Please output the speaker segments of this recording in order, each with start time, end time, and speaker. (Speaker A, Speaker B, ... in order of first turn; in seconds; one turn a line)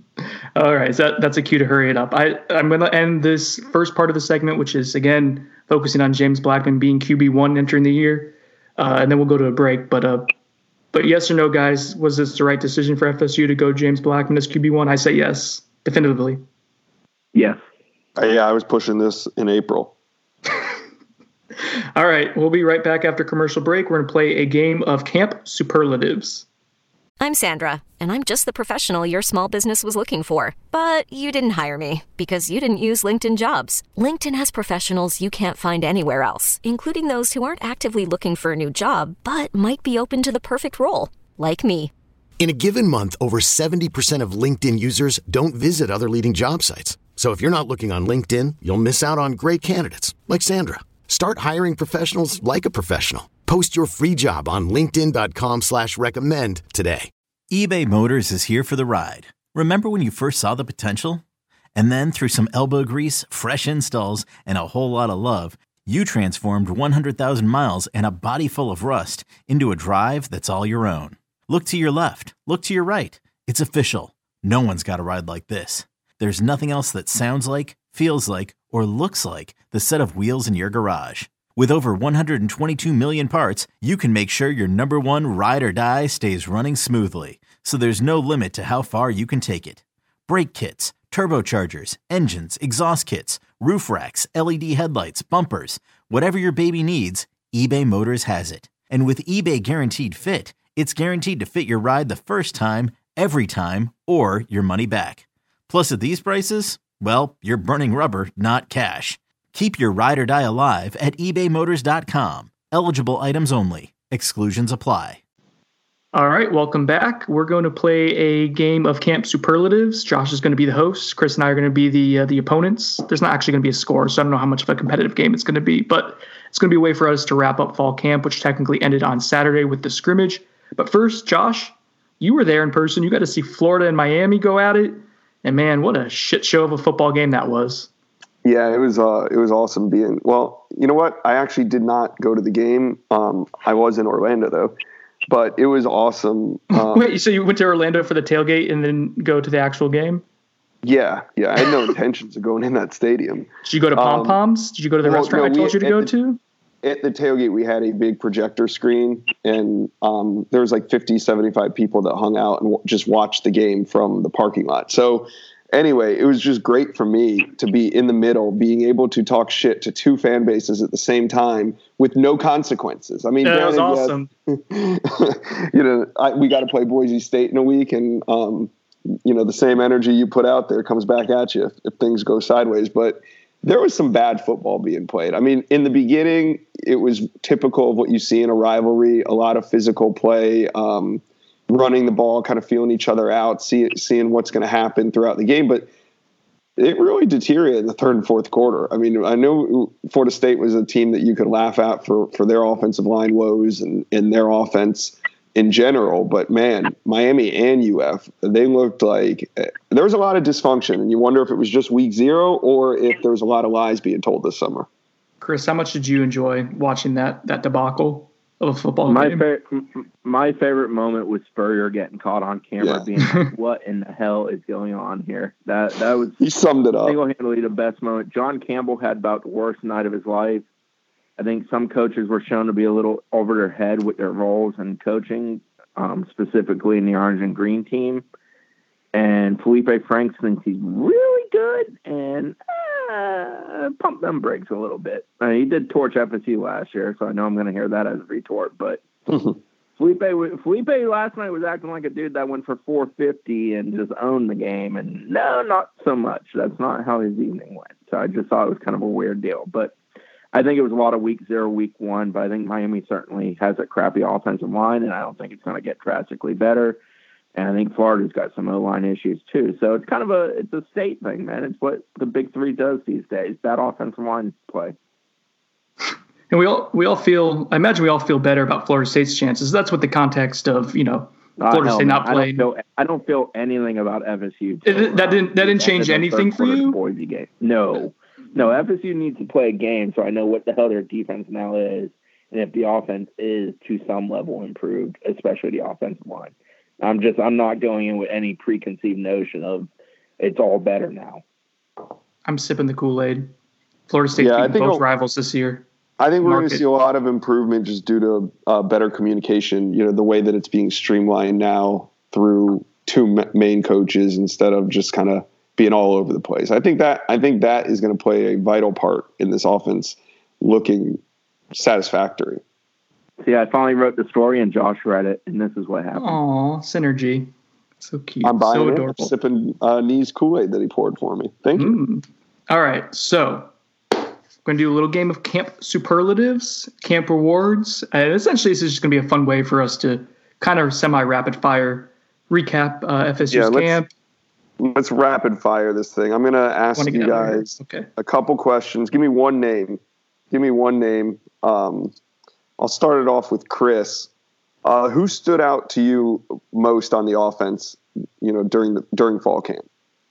Speaker A: 0.5-10.3
Speaker A: 10.9-16.4
Speaker B: 17.3-17.6
Speaker C: 18.1-19.9
Speaker A: 21.9-26.4
Speaker D: 27.2-41.9
Speaker E: 42.4-57.1
Speaker F: 57.5-61.2
Speaker F: 61.7-115.2
Speaker A: 116.1-137.9
Speaker C: 138.4-144.7
Speaker C: 145.3-147.1
Speaker A: 146.7-150.2
Speaker C: 150.8-154.4
Speaker A: 153.6-156.4
Speaker C: 155.0-156.1
Speaker C: 156.8-178.7
Speaker A: 173.4-174.3
Speaker C: 179.2-195.9
Speaker C: 196.8-214.9
Speaker A: 215.4-219.4
Speaker B: 219.1-226.4
Speaker C: 222.8-223.1
Speaker C: 226.4-227.2
Speaker B: 227.1-230.6
Speaker B: 231.4-238.2
Speaker B: 239.1-249.0
Speaker B: 250.0-259.9
Speaker B: 260.5-267.0
Speaker B: 267.5-274.9
Speaker A: 276.5-282.6
Speaker B: 281.6-301.4
Speaker A: 284.9-287.0
Speaker A: 302.4-303.5
Speaker A: 304.1-305.8
Speaker C: 304.4-305.0
Speaker C: 306.2-321.2
Speaker A: 306.4-306.8
Speaker C: 321.7-322.6
Speaker B: 323.4-326.4
Speaker A: 326.2-327.5
Speaker A: 328.0-329.3
Speaker C: 328.4-331.9
Speaker A: 331.8-333.7
Speaker A: 334.6-344.1
Speaker C: 343.5-344.0
Speaker C: 344.8-352.1
Speaker A: 346.9-348.1
Speaker C: 352.8-354.3
Speaker C: 354.8-359.9